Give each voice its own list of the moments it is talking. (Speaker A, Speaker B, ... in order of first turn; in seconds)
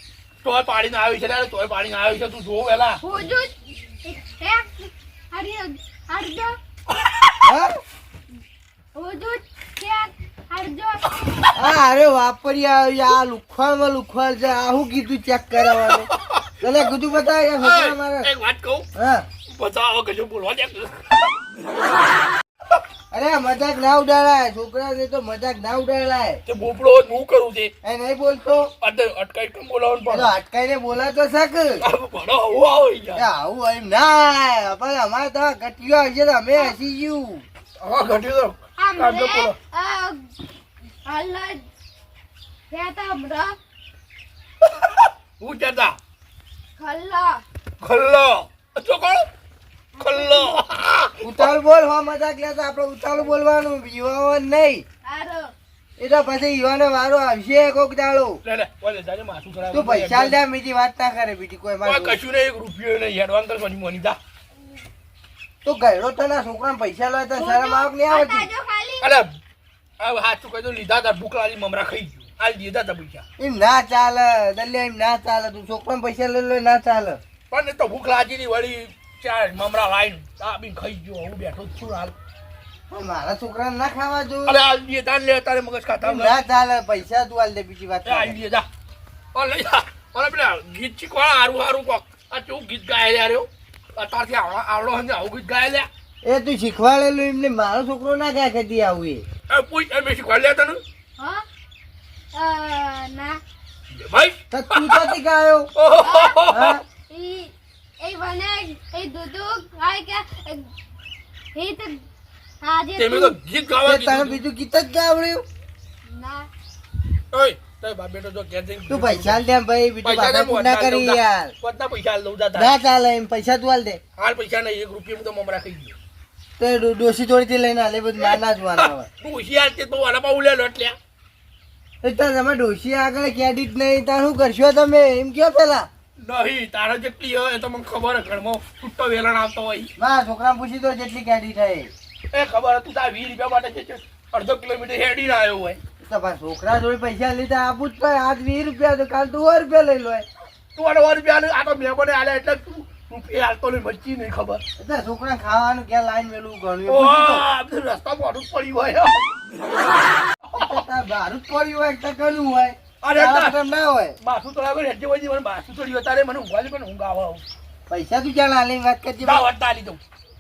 Speaker A: 0.4-3.0, 6.9-7.5, 15.7-16.9, 17.6-18.9, 19.5-21.3, 26.5-27.7, 28.8-30.4, 31.8-33.3, 37.8-39.6, 44.6-46.0, 47.8-49.3, 50.0-51.5, 58.4-60.4, 61.8-64.2, 69.0-69.3, 70.0-73.2, 77.5-82.1, 84.5-86.4, 88.0-88.7, 89.3-95.9, 99.5-100.8, 103.9-105.2, 105.8-106.8, 113.0-114.4, 117.3-119.4, 120.0-122.7, 124.2-126.0, 128.2-131.0, 136.2-139.9, 142.3-145.8, 150.8-154.6, 156.9-159.2, 160.4-160.8, 163.0-163.6, 164.2-167.4, 169.2-170.0
Speaker B: 3.0-3.5, 4.0-6.5, 8.9-11.1, 38.8-40.3, 41.0-41.6, 42.7-43.5, 46.8-47.4, 50.0-50.6, 55.0-55.5, 67.3-69.1, 102.3-103.4, 106.0-106.4, 107.0-110.7, 111.5-112.0, 112.6-113.3, 116.1-116.5
Speaker C: 7.5-7.8, 11.5-16.1, 16.6-18.3, 18.9-19.3, 23.1-26.4, 27.8-28.7, 30.1-31.8, 33.1-37.5, 51.2-54.9, 56.0-58.4, 59.7-62.2, 65.6-68.5, 73.4-77.2, 82.9-84.6, 86.0-88.4, 96.2-99.2, 104.5-105.7, 106.5-106.8, 113.8-115.4, 118.9-121.5, 122.5-124.0, 126.6-129.1, 132.0-135.9, 140.0-141.9, 146.0-150.3, 154.8-157.5, 160.6-164.2, 167.9-169.5